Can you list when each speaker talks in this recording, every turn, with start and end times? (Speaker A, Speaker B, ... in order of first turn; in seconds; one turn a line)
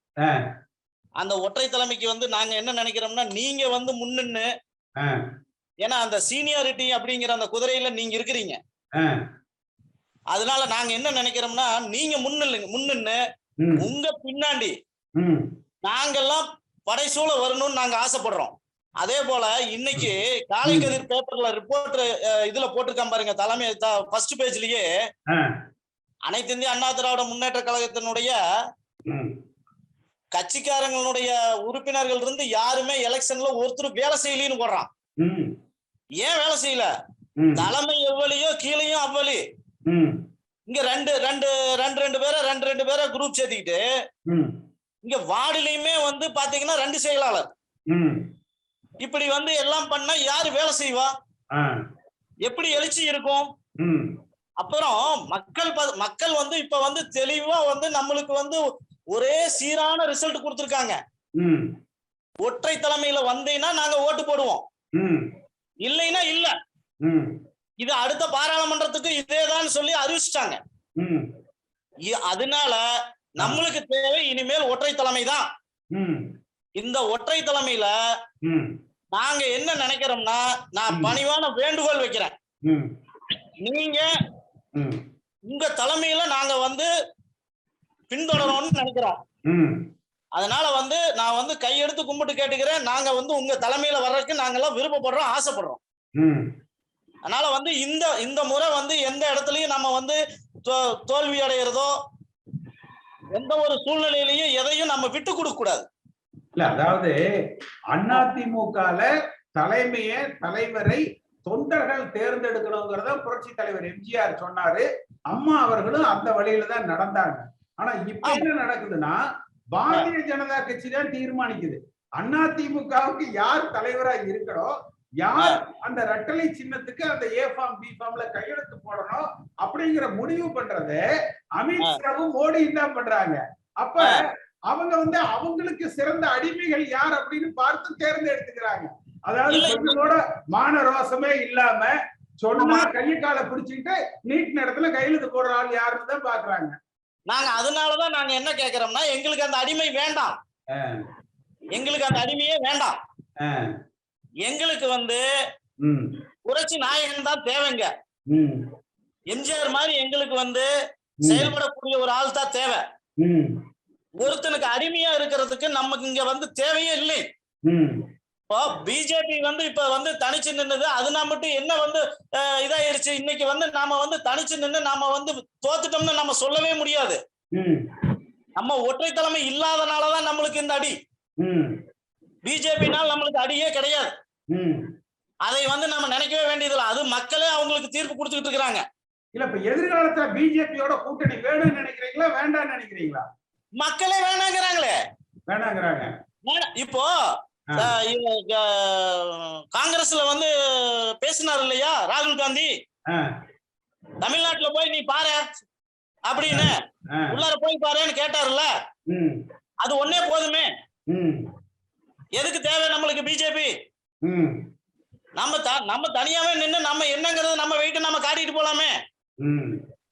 Speaker A: 1.2-4.5
Speaker A: 5.8-8.6
Speaker A: 10.3-13.2
Speaker B: 13.6-13.9
Speaker A: 13.9-14.7
Speaker B: 15.2-15.4
Speaker A: 15.9-20.0
Speaker B: 20.6-21.0
Speaker A: 21.1-24.9
Speaker A: 26.3-28.4
Speaker B: 29.1-29.3
Speaker A: 30.4-34.9
Speaker B: 35.2-35.5
Speaker A: 36.2-36.9
Speaker B: 37.4-37.7
Speaker A: 37.8-39.4
Speaker B: 39.9-40.1
Speaker A: 40.7-43.8
Speaker B: 44.3-44.5
Speaker A: 45.0-47.5
Speaker B: 47.9-48.2
Speaker A: 49.0-51.1
Speaker A: 52.5-53.5
Speaker B: 53.8-54.1
Speaker A: 54.6-58.6
Speaker A: 59.1-60.9
Speaker B: 61.4-61.7
Speaker A: 62.4-64.6
Speaker B: 64.9-65.2
Speaker A: 65.8-66.5
Speaker B: 67.0-67.3
Speaker A: 67.8-70.6
Speaker B: 71.0-71.2
Speaker A: 72.2-72.8
Speaker B: 73.4-73.7
Speaker A: 73.7-75.4
Speaker B: 75.9-76.2
Speaker A: 76.8-77.9
Speaker B: 78.4-78.7
Speaker A: 79.2-82.3
Speaker B: 80.9-81.2
Speaker A: 83.7-84.0
Speaker A: 85.5-86.9
Speaker A: 88.1-89.1
Speaker B: 89.5-89.8
Speaker A: 90.4-95.8
Speaker B: 96.2-96.4
Speaker A: 97.3-100.2
Speaker A: 101.1-101.9
Speaker A: 103.4-105.8
Speaker B: 106.6-107.2
Speaker B: 107.9-119.2
Speaker B: 119.7-124.7
Speaker B: 125.2-131.0
Speaker B: 131.6-134.1
Speaker B: 134.7-146.8
Speaker A: 147.3-150.3
Speaker A: 151.8-152.9
Speaker A: 154.5-155.2
Speaker B: 155.8-156.1
Speaker A: 156.5-157.9
Speaker B: 158.3-158.6
Speaker A: 159.3-160.7
Speaker B: 161.2-161.6
Speaker A: 161.6-162.8
Speaker B: 163.2-163.5
Speaker A: 164.3-167.2
Speaker B: 167.7-168.0
Speaker A: 168.5-172.0
Speaker A: 172.6-177.2
Speaker B: 177.6-177.8
Speaker A: 178.6-180.9
Speaker B: 181.4-181.7
Speaker A: 182.5-184.1
Speaker B: 184.5-184.8
Speaker A: 185.5-188.8
Speaker B: 189.3-193.2
Speaker A: 193.8-194.9
Speaker B: 195.5-196.1
Speaker A: 196.5-197.1
Speaker A: 198.1-200.5
Speaker A: 201.2-202.7
Speaker A: 204.2-205.4
Speaker B: 206.4-207.4
Speaker A: 207.5-208.7
Speaker B: 209.1-209.4
Speaker A: 209.8-210.7
Speaker B: 211.1-211.4
Speaker A: 212.4-213.7
Speaker B: 214.2-214.5
Speaker A: 215.4-218.9
Speaker B: 219.4-219.7